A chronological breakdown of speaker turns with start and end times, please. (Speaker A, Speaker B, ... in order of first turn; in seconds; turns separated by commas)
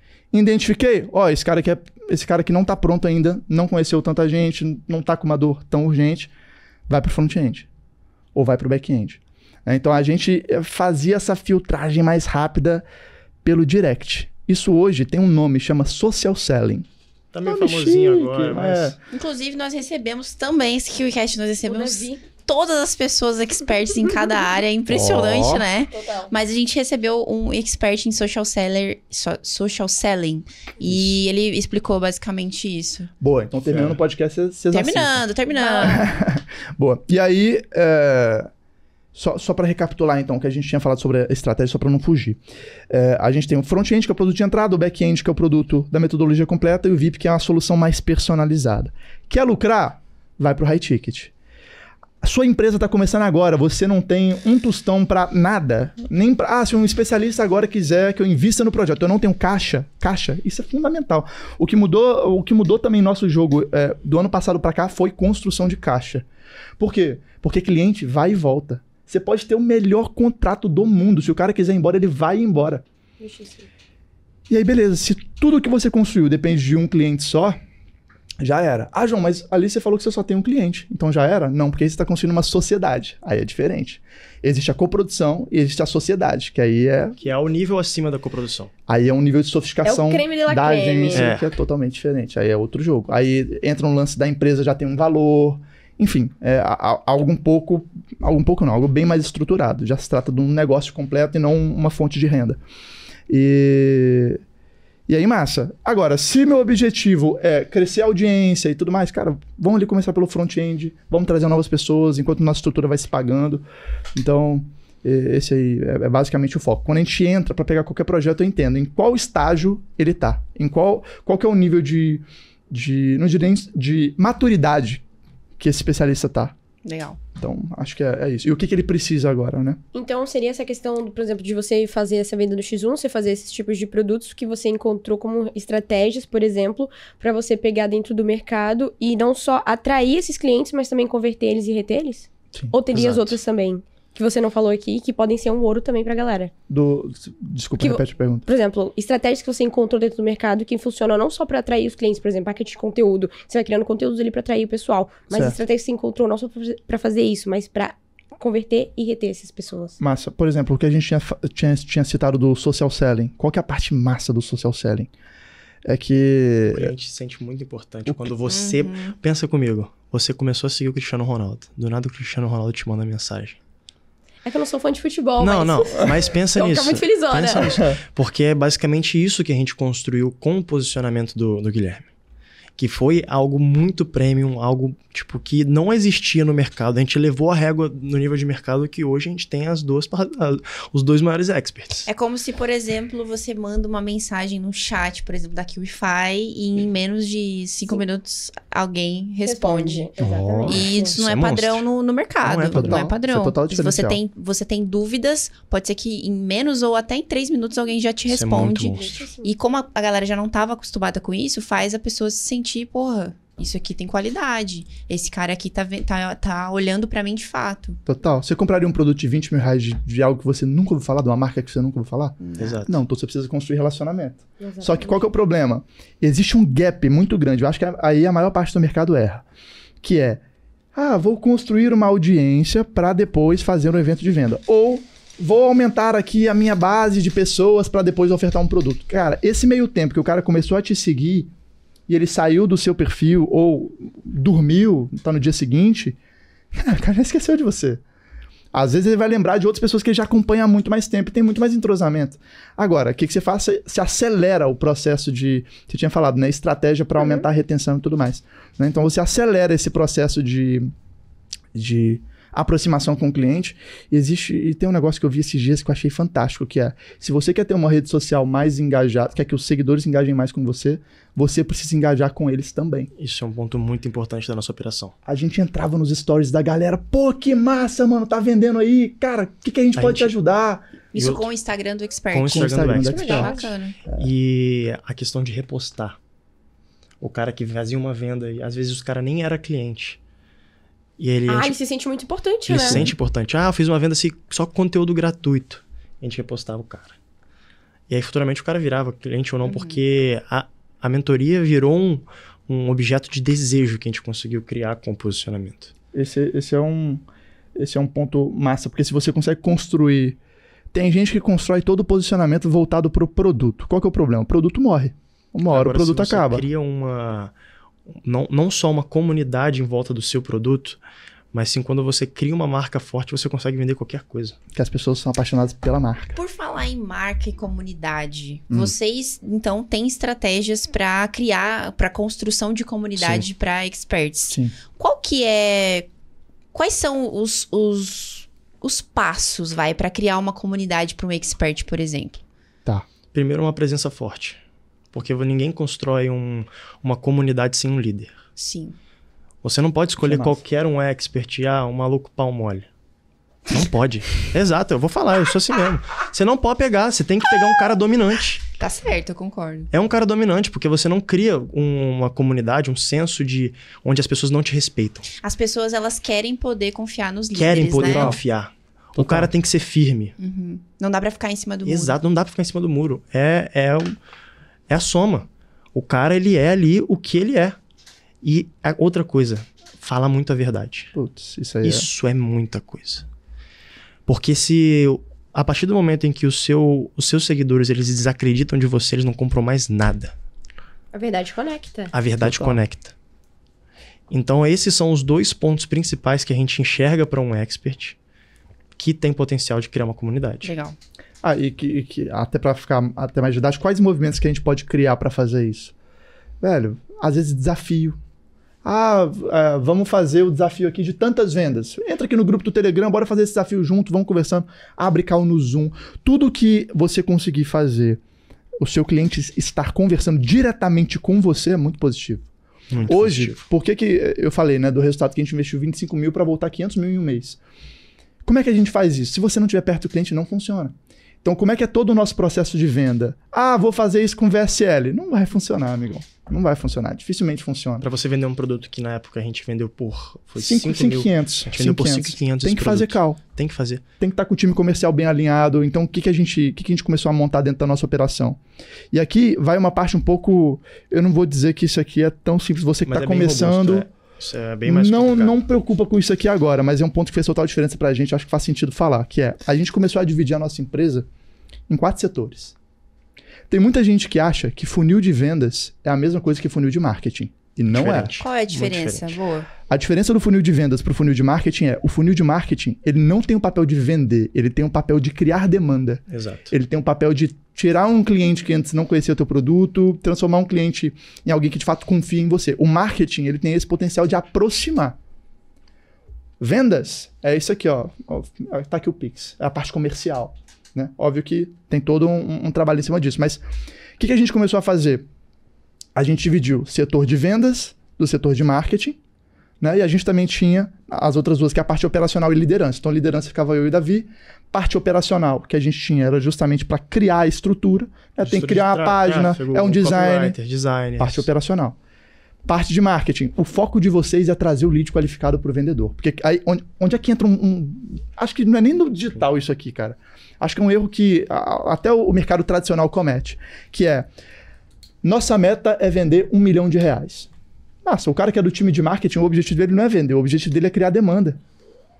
Speaker A: 0.3-6.3, Speaker A: 6.9-7.7, Speaker A: 8.3-12.8, Speaker A: 13.4-16.9, Speaker B: 17.3-19.0, Speaker A: 17.4-18.9, Speaker C: 19.1-33.1, Speaker D: 21.6-22.2, Speaker A: 24.9-25.6, Speaker D: 25.9-26.3, Speaker A: 30.9-31.1, Speaker A: 33.2-35.2, Speaker B: 33.5-34.0, Speaker C: 34.7-36.1, Speaker D: 35.5-36.0, Speaker A: 35.8-38.5, Speaker A: 39.1-51.3, Speaker A: 52.2-66.2, Speaker A: 66.8-72.8, Speaker D: 73.2-73.7, Speaker A: 74.5-77.5, Speaker A: 78.4-87.2, Speaker B: 87.2-88.7, Speaker A: 88.9-102.6, Speaker D: 89.8-91.3, Speaker B: 91.1-91.4, Speaker A: 103.3-104.4, Speaker A: 105.1-113.6, Speaker A: 114.2-125.0, Speaker A: 125.6-126.5, Speaker C: 126.8-127.2, Speaker A: 127.3-129.8, Speaker D: 129.9-146.5, Speaker B: 142.9-143.4, Speaker A: 146.7-148.4, Speaker D: 147.8-160.0, Speaker A: 155.3-155.6, Speaker A: 160.0-165.1, Speaker A: 165.8-166.9, Speaker B: 166.7-173.6, Speaker C: 168.5-169.2, Speaker D: 174.4-177.8, Speaker B: 175.4-182.1, Speaker A: 177.7-177.9, Speaker B: 182.8-192.1, Speaker C: 192.1-200.1, Speaker D: 199.4-201.2, Speaker B: 200.2-201.8, Speaker C: 200.7-218.0, Speaker B: 202.4-203.0, Speaker A: 202.7-204.2, Speaker B: 208.3-209.2, Speaker D: 208.9-209.5, Speaker A: 218.1-229.4, Speaker C: 222.4-222.8, Speaker B: 222.6-223.0, Speaker D: 224.6-225.3, Speaker A: 230.0-230.4, Speaker A: 230.9-241.5, Speaker A: 242.1-246.2, Speaker A: 246.7-248.0, Speaker A: 248.7-260.9, Speaker A: 261.7-273.1, Speaker B: 273.2-275.1, Speaker A: 275.2-280.9, Speaker B: 280.0-280.3, Speaker C: 281.1-284.0, Speaker B: 281.1-281.5, Speaker B: 282.3-283.5, Speaker A: 282.5-283.5, Speaker B: 284.2-286.2, Speaker B: 287.2-290.2, Speaker B: 291.2-291.8, Speaker D: 291.5-293.0, Speaker B: 292.7-297.1, Speaker A: 292.8-293.1, Speaker B: 298.1-305.9, Speaker C: 299.6-300.0, Speaker A: 306.1-307.2, Speaker A: 307.8-310.4, Speaker A: 310.9-316.6, Speaker B: 315.7-317.5, Speaker B: 318.2-321.0, Speaker B: 321.5-324.6, Speaker A: 324.7-326.4, Speaker C: 326.3-336.1, Speaker B: 333.2-333.4, Speaker C: 336.7-342.4, Speaker B: 343.3-344.6, Speaker B: 345.1-348.4, Speaker C: 348.6-348.9, Speaker B: 349.6-352.9, Speaker A: 350.2-350.6, Speaker B: 353.7-358.6, Speaker C: 358.8-359.9, Speaker B: 359.9-365.2, Speaker C: 365.4-368.4, Speaker B: 367.5-370.3, Speaker A: 368.0-368.4, Speaker A: 369.1-369.5, Speaker C: 370.4-372.1, Speaker B: 371.8-374.1, Speaker B: 374.9-377.8, Speaker B: 378.4-381.1, Speaker A: 381.1-382.1, Speaker B: 381.8-383.2, Speaker B: 384.3-390.3, Speaker D: 391.1-392.1, Speaker B: 392.1-393.1, Speaker A: 392.4-392.8, Speaker B: 394.3-398.1, Speaker B: 399.0-400.7, Speaker C: 400.6-400.9, Speaker A: 401.4-405.9, Speaker A: 406.6-408.2, Speaker A: 408.8-418.2, Speaker A: 418.8-422.4, Speaker B: 422.9-423.6, Speaker A: 423.1-427.6, Speaker A: 428.4-438.0, Speaker B: 438.0-444.0, Speaker A: 440.6-443.4, Speaker A: 444.2-448.6, Speaker A: 449.1-454.1, Speaker B: 453.1-455.5, Speaker A: 454.8-461.3, Speaker A: 461.9-462.7, Speaker A: 463.7-468.3, Speaker B: 467.9-469.3, Speaker C: 468.4-469.7, Speaker A: 469.9-485.2, Speaker B: 476.3-476.7, Speaker A: 486.6-493.6, Speaker A: 494.2-495.2, Speaker A: 496.1-499.2, Speaker A: 499.8-510.5, Speaker B: 508.4-511.5, Speaker A: 511.2-512.0, Speaker A: 512.7-524.3, Speaker A: 525.2-527.5, Speaker A: 528.0-531.6